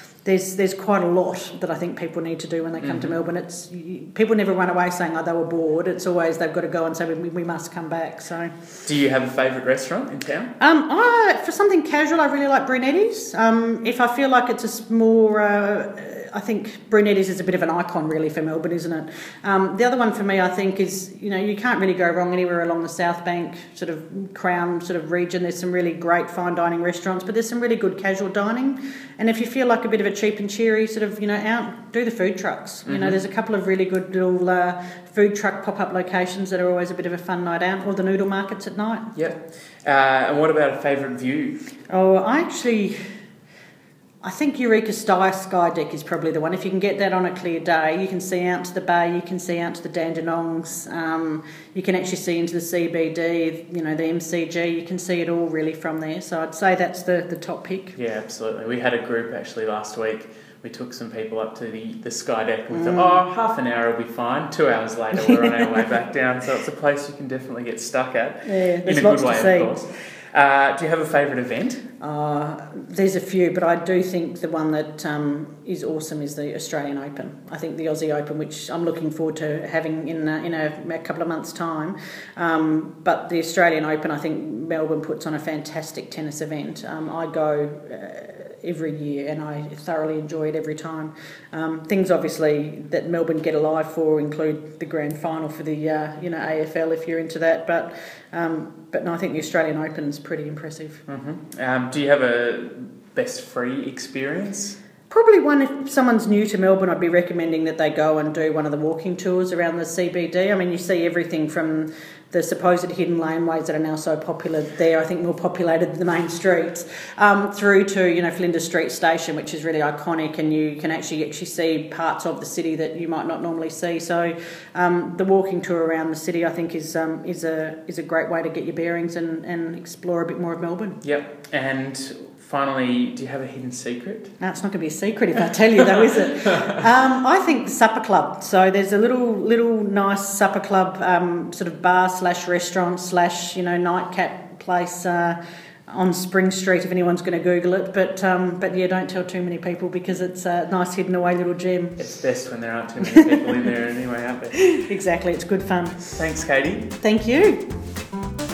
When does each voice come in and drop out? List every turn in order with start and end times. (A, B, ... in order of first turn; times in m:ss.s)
0:00.2-0:08.6 A
0:02.8-0:03.1 B
0:08.9-0:10.5 B
0:10.6-0:39.2 A
0:32.9-0:33.2 B
0:39.2-0:41.6 B
0:41.9-0:43.0 A
0:44.2-0:58.0 A
0:58.0-1:11.8 B
1:02.7-1:03.2 A
1:08.4-1:09.8 A
1:12.0-1:41.0 A
1:41.1-1:44.8 B
1:45.1-2:11.0 A
2:11.0-2:14.3 B
2:14.4-2:32.0 A
2:32.0-2:34.7 B
2:33.0-2:33.7 A
2:34.6-2:36.2 A
2:36.2-2:37.0 B
2:37.0-2:37.7 A